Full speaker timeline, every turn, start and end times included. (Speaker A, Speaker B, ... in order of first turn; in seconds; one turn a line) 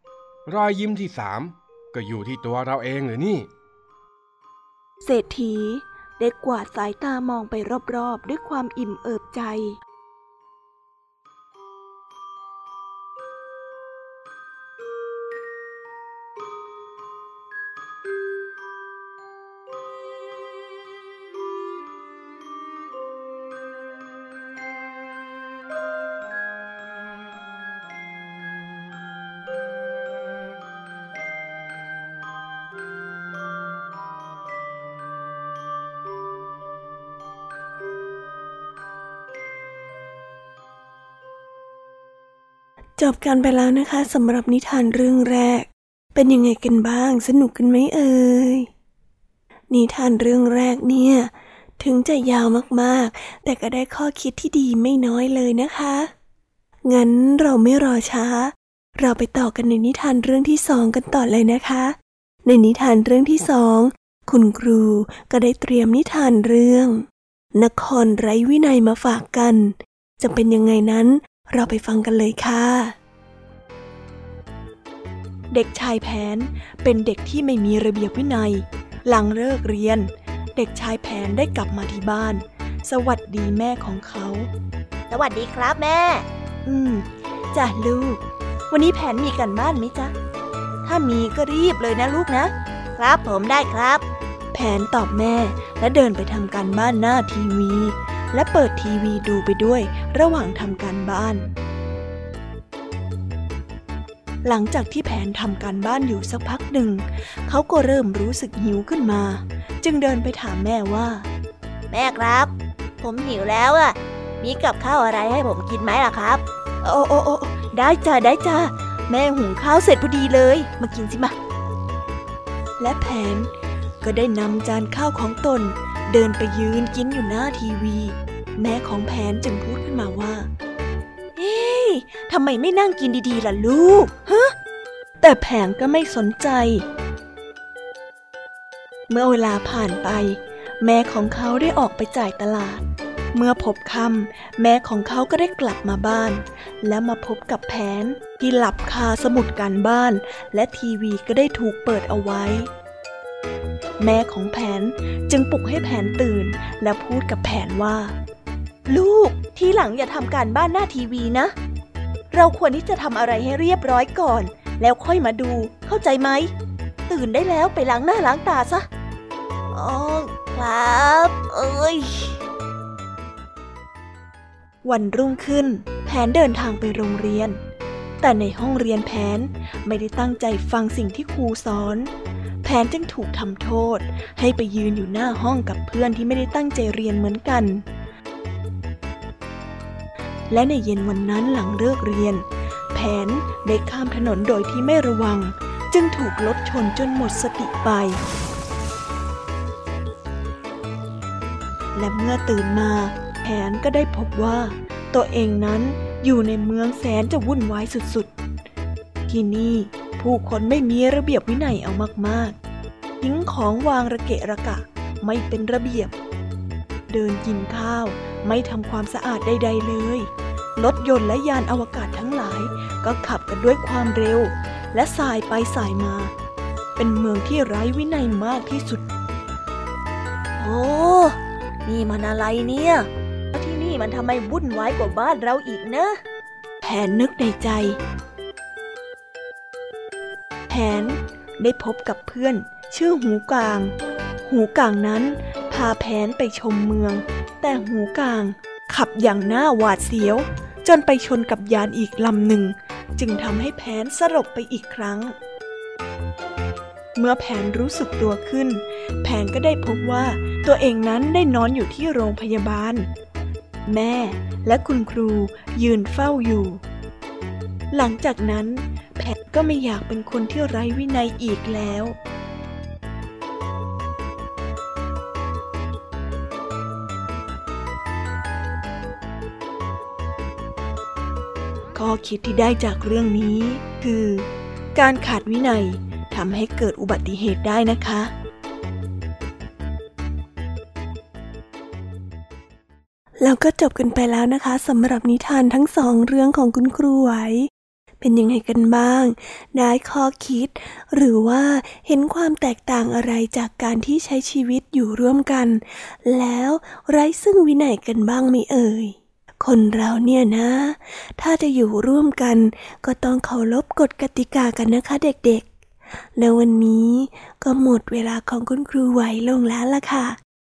Speaker A: 0.5-3.5
Speaker B: 5.0-9.8
Speaker C: 43.0-48.7
Speaker C: 49.7-56.1
Speaker C: 56.9-67.0
Speaker C: 67.5-72.9
Speaker B: 75.5-84.5
Speaker C: 85.1-86.2
Speaker B: 86.7-90.1
Speaker B: 90.9-92.5
Speaker C: 93.0-94.0
Speaker B: 94.5-101.5
Speaker B: 104.4-111.2
Speaker C: 111.9-116.4
Speaker B: 116.8-121.3
Speaker B: 122.8-123.5
Speaker B: 124.0-130.5
Speaker B: 131.4-134.5
Speaker B: 135.2-136.8
Speaker B: 139.1-142.8
Speaker B: 143.3-152.7
Speaker B: 154.0-158.1
Speaker B: 158.9-161.5
Speaker B: 162.3-166.5
Speaker B: 167.1-168.8
Speaker C: 169.7-172.3
Speaker B: 174.8-177.6
Speaker B: 178.2-182.1
Speaker B: 182.6-187.8
Speaker B: 190.5-198.2
Speaker B: 201.9-208.3
Speaker B: 209.3-212.6
Speaker B: 213.2-216.1
Speaker B: 217.1-226.3
Speaker B: 226.9-229.1
Speaker C: 230.6-231.3
Speaker B: 231.9-232.9
Speaker B: 233.5-236.1
Speaker B: 236.8-238.0
Speaker B: 240.7-243.9
Speaker B: 244.4-255.3
Speaker B: 257.1-263.1
Speaker B: 263.9-266.8
Speaker B: 267.9-272.1
Speaker B: 281.9-288.3
Speaker C: 293.4-297.7
Speaker C: 298.2-315.6
Speaker C: 316.4-320.4